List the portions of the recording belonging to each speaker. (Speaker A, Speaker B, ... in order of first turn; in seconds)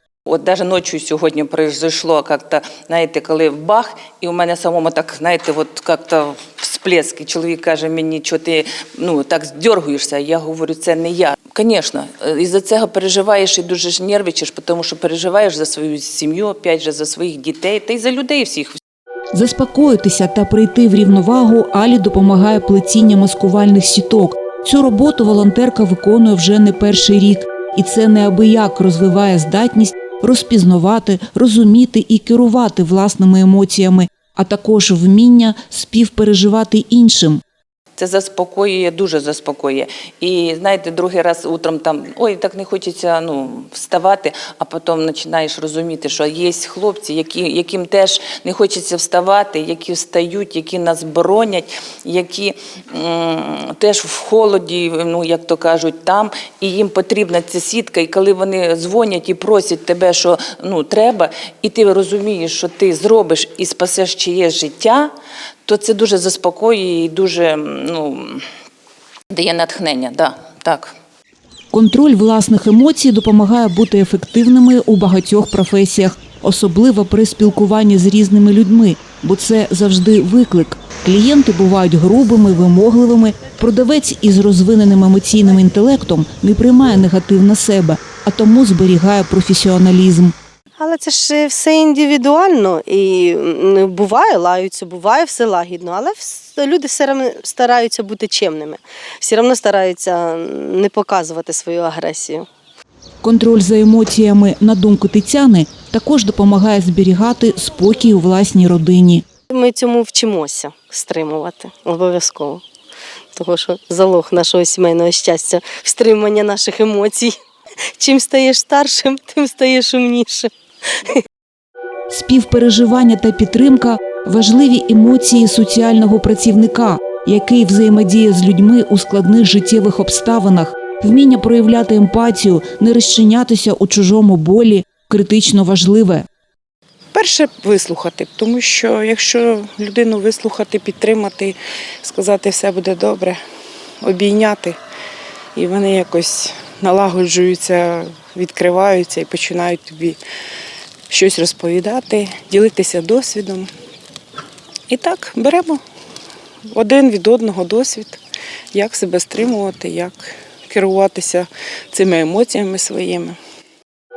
Speaker A: 0.3-18.8, 38.0-65.1, 65.7-68.5, 69.3-70.9
Speaker B: 19.3-37.4, 71.7-90.3, 103.2-109.2, 122.1-136.2
Speaker C: 90.8-102.5, 109.5-112.6, 113.3-117.4, 118.0-121.2
Speaker D: 137.1-143.4, 144.0-144.8, 145.6-150.2, 151.1-153.7, 154.9-155.8, 156.7-158.2, 158.7-163.4